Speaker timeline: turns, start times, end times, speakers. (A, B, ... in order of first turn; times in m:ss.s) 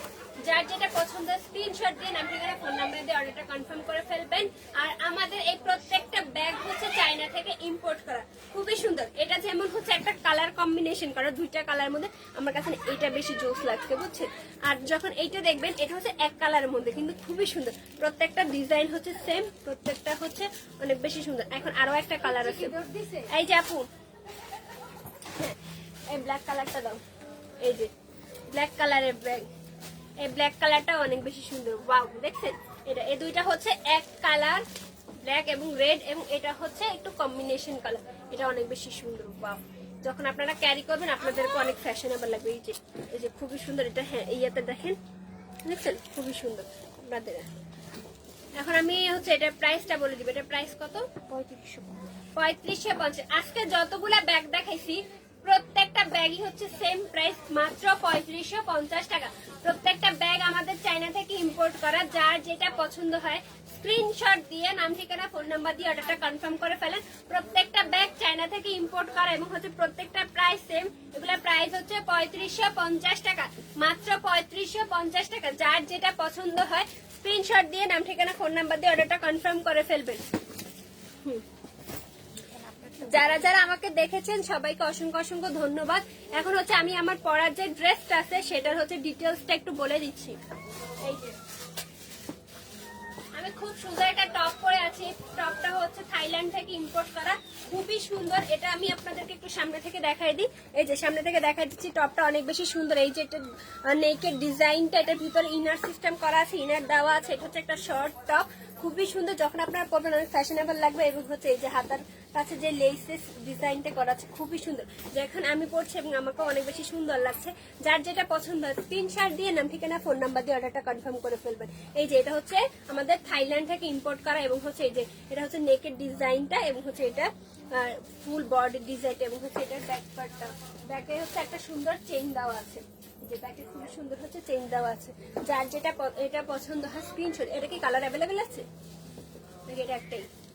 0:00.4-0:22.8 A
0:22.2-0:23.3 B
0:23.3-0:23.9 A
0:26.1-0:27.0 A
0:27.6-0:27.9 A
0:28.5-0:29.5 A
0:30.2-0:34.6 A
0:35.2-0:45.0 A
0:45.6-0:47.5 A
0:48.6-0:51.1 A
0:51.3-0:52.1 B
0:52.4-1:20.2 A
1:22.5-1:23.5 B
1:23.0-1:30.4 A
1:31.0-1:31.3 A
1:33.4-2:18.7 A
2:19.7-2:20.3 A